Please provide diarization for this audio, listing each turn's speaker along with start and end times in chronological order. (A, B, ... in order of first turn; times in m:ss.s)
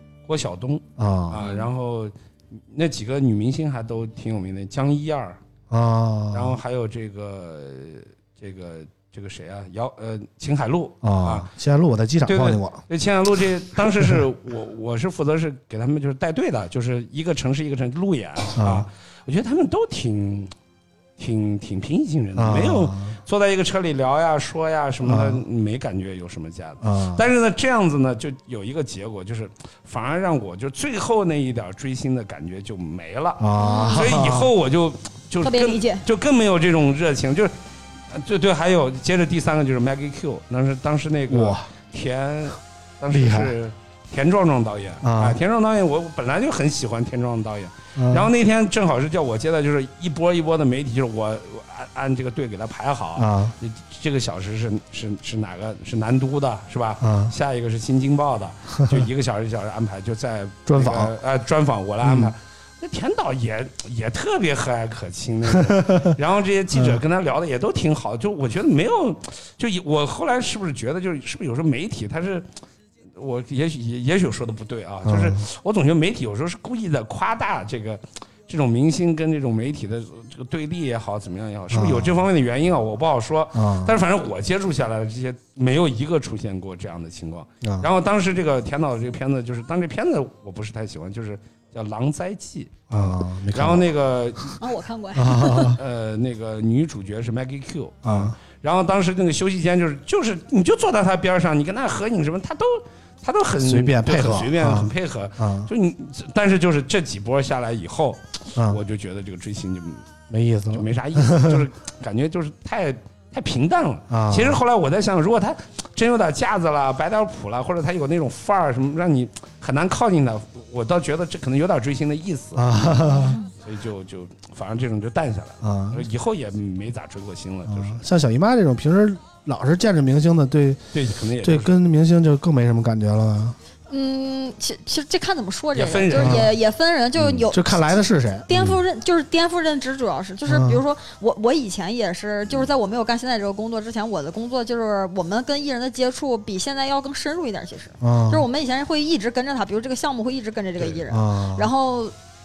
0:00.3-0:05.4 A
0:01.0-0:01.4 B
0:01.4-0:01.7 C
0:05.7-0:06.6 B
0:06.3-0:11.5 A
0:11.0-0:12.8 B
0:12.2-0:20.5 A
0:18.6-0:18.9 B
0:21.2-0:37.5 A
0:22.4-0:23.1 B
0:25.0-0:25.4 B
0:26.8-0:27.2 B
0:33.4-0:34.5 B
0:33.6-0:34.0 C
0:35.4-0:36.0 C
0:38.1-1:12.5 A
0:41.3-0:41.6 B
0:43.1-0:43.5 B
0:45.0-0:45.4 B
0:48.0-0:48.3 B
0:53.2-0:53.6 B
0:57.0-0:57.3 B
1:00.7-1:01.1 B
1:02.0-1:02.3 B
1:05.5-1:06.1 B
1:06.7-1:07.0 B
1:13.2-1:34.6 A
1:15.0-1:15.4 B
1:21.7-1:22.1 B
1:23.5-1:24.0 B
1:27.6-1:27.9 B
1:32.9-1:34.0 B
1:34.6-1:35.7 C
1:35.1-1:35.8 B
1:35.7-1:50.1 A
1:38.0-1:38.3 B
1:43.6-1:45.7 B
1:50.3-1:51.6 B
1:50.7-2:08.0 A
1:54.1-1:54.6 B
2:02.5-2:03.4 B
2:05.6-2:06.0 B
2:07.7-2:10.8 B
2:10.9-2:11.7 A
2:11.4-2:13.6 B
2:13.9-2:17.9 C
2:15.7-2:16.5 A
2:16.1-2:16.5 B
2:17.2-2:17.5 A
2:17.5-2:18.4 B
2:18.5-2:32.1 C
2:18.5-2:18.8 A
2:20.4-2:20.8 B
2:28.0-2:28.5 B
2:31.1-2:31.7 B